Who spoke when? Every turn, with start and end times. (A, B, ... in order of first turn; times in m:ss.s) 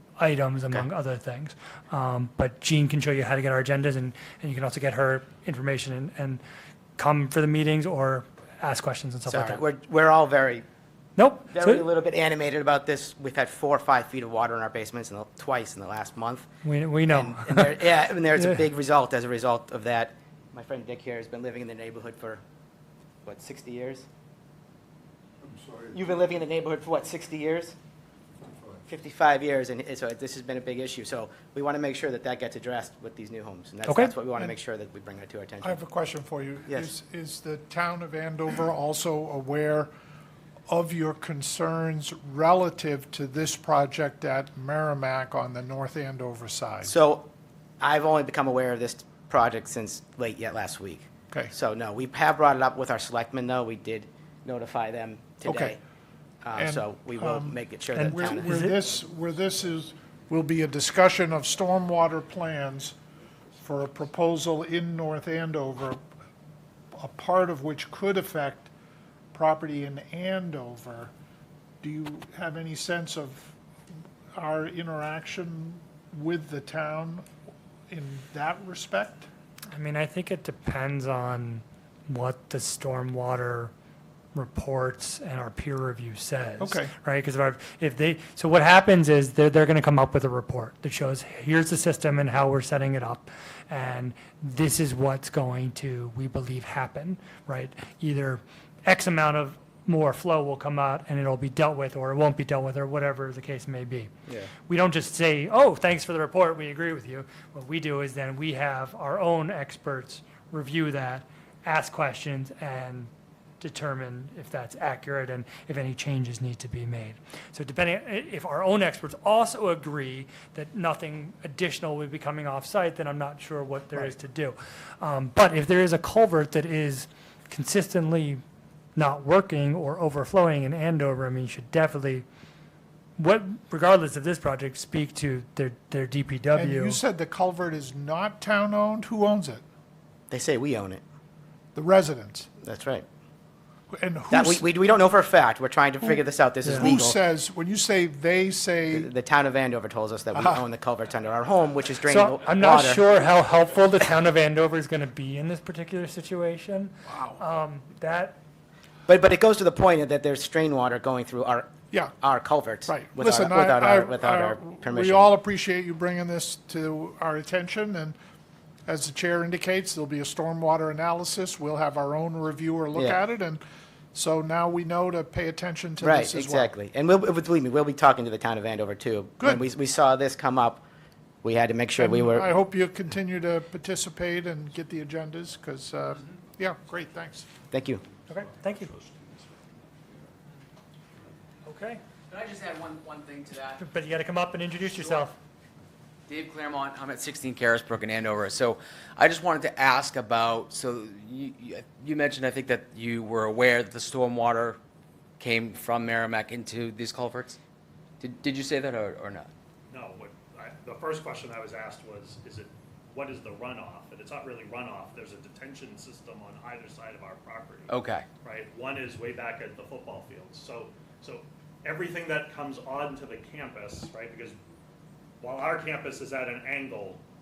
0:00.2-0:06.4 A
0:07.0-0:09.6 A
0:09.3-0:10.6 B
0:11.2-0:11.8 A
0:11.5-0:16.5 B
0:16.6-0:17.8 A
0:17.1-0:22.4 B
0:23.2-0:24.0 B
0:25.9-0:27.8 B
0:28.8-0:35.8 B
0:35.6-0:39.9 C
0:40.7-0:46.9 C
0:46.8-0:47.3 B
0:47.8-0:55.8 B
0:55.4-0:55.8 C
0:56.4-0:58.5 B
0:56.6-1:03.0 C
0:57.9-0:58.7 A
1:03.6-1:06.0 C
1:06.9-1:08.7 C
1:09.3-1:11.1 C
1:11.8-1:13.6 C
1:14.3-1:17.3 C
1:17.9-1:19.3 C
1:19.7-1:23.7 A
1:24.3-1:44.1 A
1:26.6-1:26.9 C
1:44.7-1:53.1 A
1:53.6-2:08.4 A
2:09.0-2:12.2 A
2:13.2-2:17.0 A
2:16.5-2:19.6 C
2:20.3-2:21.0 B
2:21.7-2:22.5 C
2:22.6-2:23.0 B
2:23.9-2:24.6 C
2:24.3-2:27.2 B
2:26.7-2:29.1 C
2:28.9-2:33.0 B
2:30.3-2:30.6 C
2:32.1-2:38.4 A
2:37.1-2:37.4 C
2:39.1-2:45.3 B
2:42.9-2:48.2 C
2:48.8-2:53.6 C
2:54.1-2:56.7 C
2:56.0-3:00.8 B
3:01.4-3:02.5 B
3:02.0-3:07.5 C
3:07.7-3:08.0 B
3:08.3-3:09.0 A
3:11.6-3:12.0 A
3:12.3-3:13.8 D
3:13.8-3:15.4 A
3:15.0-3:15.2 D
3:16.3-3:24.8 D
3:25.4-3:27.6 D
3:28.2-3:29.5 D
3:29.9-3:37.9 E
3:37.9-3:38.2 D
3:38.4-3:44.6 E
3:45.4-3:47.2 E